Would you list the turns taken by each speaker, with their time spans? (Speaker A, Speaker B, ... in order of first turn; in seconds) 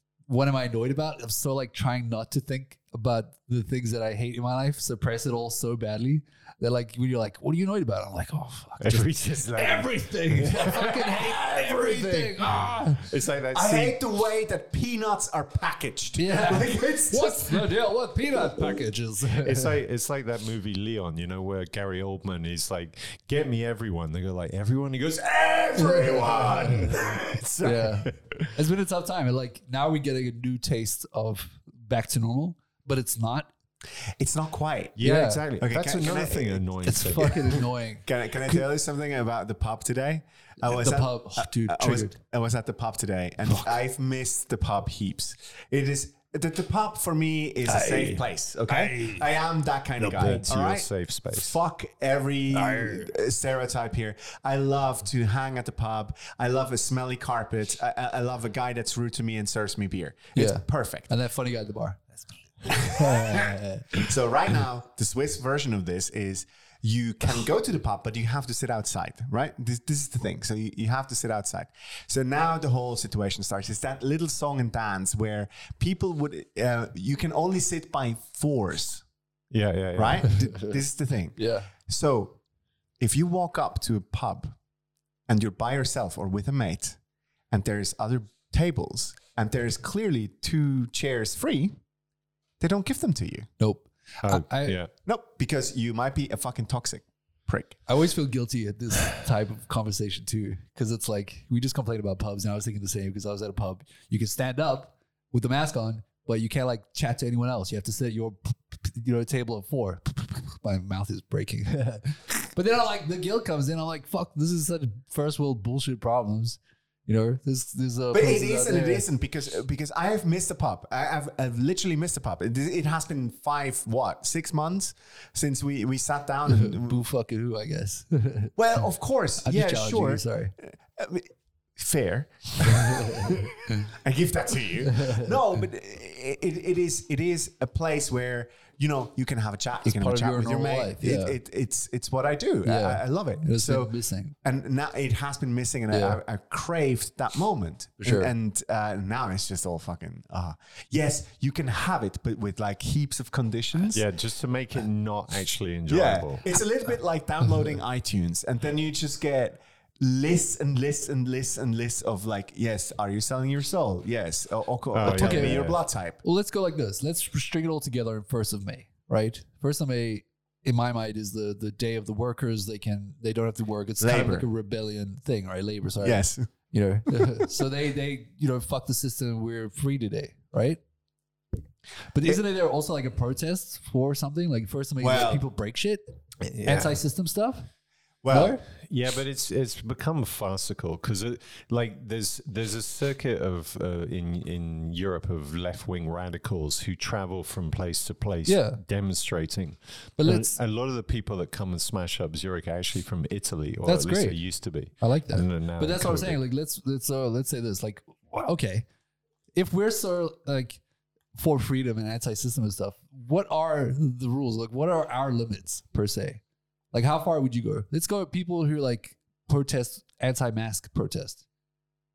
Speaker A: 0.3-13.1, 16.2-19.8, 25.8-27.0, 27.6-33.5, 35.0-35.4, 36.8-38.6, 40.6-42.1, 47.7-49.2, 50.0-50.3, 52.5-53.1, 60.3-64.1, 81.4-81.7, 93.6-94.8, 97.9-119.0, 126.5-128.8, 129.4-130.5, 132.8-133.3, 134.9-135.6, 139.8-141.4, 142.6-144.3, 145.9-146.2, 148.0-148.3, 165.1-165.7, 166.2-180.8, 182.1-186.0, 186.6-187.7, 188.3-188.6, 198.4-198.8, 200.2-200.6, 203.8-208.8, 209.5-210.8, 211.3-216.4, 216.9-221.4
Speaker B: 8.8-14.0, 19.3-28.5, 35.0-37.5, 50.1-51.5, 79.5-80.3, 94.2-94.9, 153.9-156.4, 164.9-165.8, 186.4-187.0, 188.7-206.4
Speaker C: 13.5-17.7, 26.1-26.9, 34.2-35.0, 35.6-36.6, 37.2-37.5, 38.0-61.1, 62.7-79.0, 80.0-82.4, 83.0-84.5, 85.3-87.0, 87.5-91.7, 92.6-93.5, 95.0-97.8, 118.1-127.0, 128.6-154.0, 155.9-166.2, 174.0-174.4, 176.0-176.5, 185.0-185.4, 188.2-188.6